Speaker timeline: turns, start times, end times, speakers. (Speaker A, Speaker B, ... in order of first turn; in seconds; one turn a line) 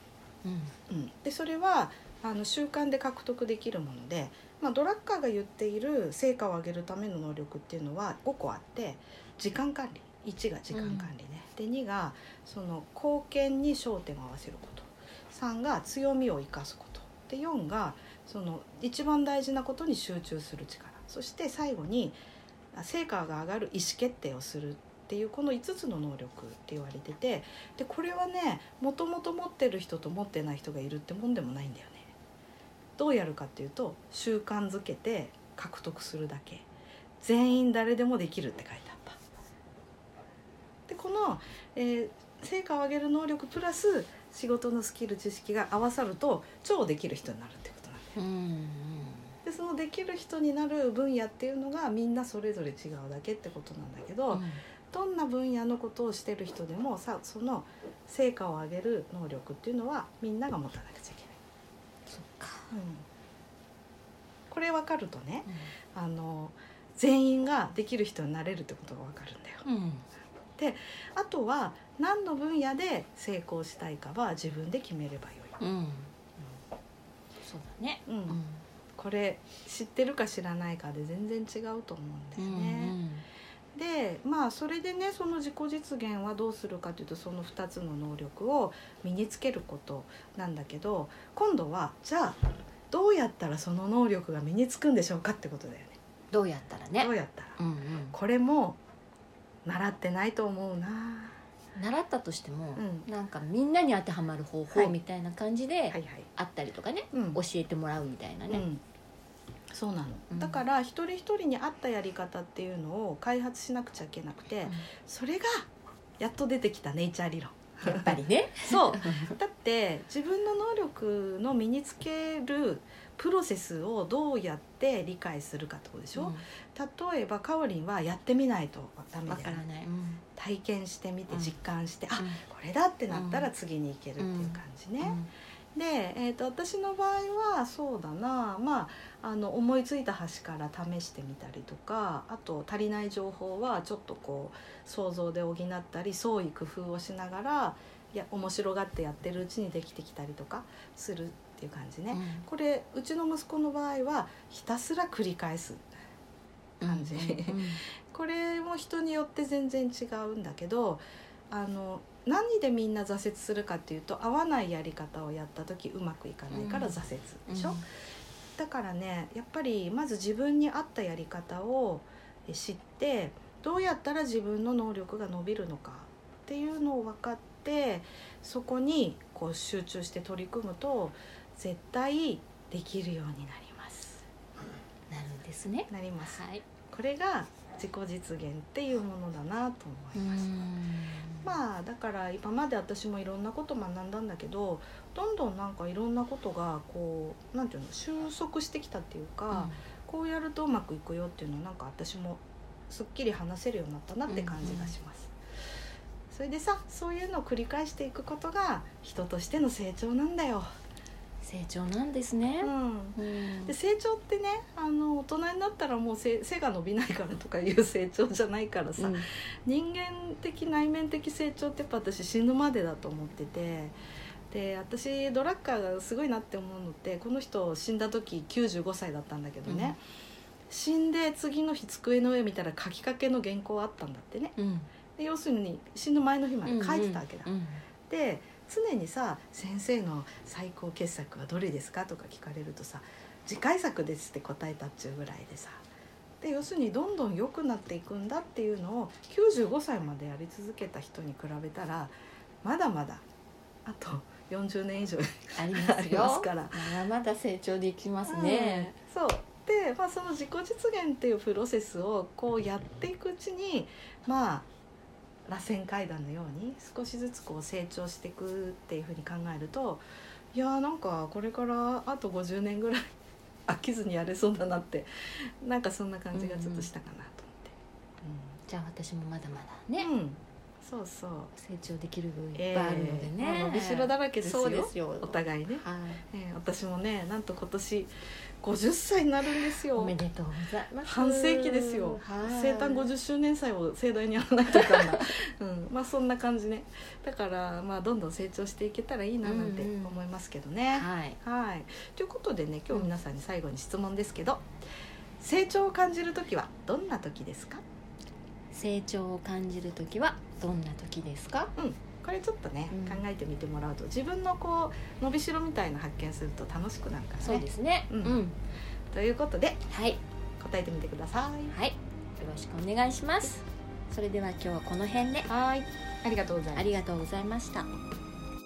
Speaker A: 0.4-0.8
Speaker B: 0.9-22.2
Speaker A: 10.7-11.1
Speaker B: 22.7-32.1
Speaker B: 33.0-36.6
Speaker B: 37.2-39.2
Speaker B: 40.9-48.2
Speaker A: 48.1-49.3
Speaker B: 49.4-61.4
Speaker A: 54.3-54.6
Speaker A: 62.1-62.7
Speaker B: 62.7-63.1
Speaker B: 64.5-69.6
Speaker A: 65.5-65.7
Speaker A: 69.6-70.1
Speaker B: 70.6-75.6
Speaker A: 75.6-76.1
Speaker A: 77.4-78.6
Speaker B: 78.1-78.4
Speaker B: 79.0-83.0
Speaker A: 82.4-83.2
Speaker B: 83.7-96.0
Speaker A: 96.3-98.2
Speaker B: 97.0-97.6
Speaker B: 98.1-98.8
Speaker B: 99.6-101.4
Speaker A: 101.8-108.7
Speaker B: 102.8-103.1
Speaker B: 105.9-106.3
Speaker B: 107.1-107.4
Speaker B: 108.5-108.8
Speaker B: 109.7-115.7
Speaker A: 110.3-110.6
Speaker B: 116.2-129.6
Speaker A: 117.8-119.4
Speaker A: 126.1-126.4
Speaker A: 129.3-130.2
Speaker B: 130.4-135.2
Speaker A: 131.3-131.6
Speaker A: 132.2-132.4
Speaker A: 133.1-133.5
Speaker A: 134.2-135.3
Speaker B: 135.7-155.9
Speaker A: 152.1-152.5
Speaker A: 156.8-157.8
Speaker B: 156.8-167.8
Speaker A: 166.5-167.8
Speaker B: 168.6-184.2
Speaker A: 185.1-186.6
Speaker B: 185.9-190.4
Speaker A: 190.1-191.5
Speaker B: 191.4-205.3
Speaker A: 199.5-199.8
Speaker A: 204.3-204.9
Speaker B: 206.3-210.7
Speaker A: 211.4-213.8
Speaker B: 212.6-223.9
Speaker A: 219.0-219.3
Speaker B: 224.5-230.0
Speaker A: 229.7-230.0
Speaker B: 230.7-234.6
Speaker A: 234.6-234.9
Speaker B: 235.2-237.5
Speaker A: 236.6-237.8
Speaker B: 238.1-245.8
Speaker B: 246.4-253.3
Speaker B: 253.8-257.0
Speaker A: 255.6-258.9
Speaker B: 258.3-264.7
Speaker B: 265.5-273.1
Speaker B: 273.6-278.6
Speaker A: 276.3-276.9
Speaker A: 278.7-280.1
Speaker B: 280.0-281.5
Speaker A: 281.6-286.2
Speaker B: 282.6-288.1
Speaker B: 288.6-290.1
Speaker A: 289.9-293.1
Speaker B: 291.0-304.7
Speaker A: 294.7-295.3
Speaker A: 299.4-300.2
Speaker A: 300.9-301.4
Speaker B: 305.4-307.8
Speaker A: 308.7-311.7
Speaker B: 311.8-318.4
Speaker A: 312.9-313.2
Speaker A: 317.4-318.6
Speaker B: 319.1-319.8
Speaker A: 319.9-320.2
Speaker B: 320.6-321.8
Speaker A: 321.7-325.5
Speaker B: 325.5-326.9
Speaker A: 326.8-327.9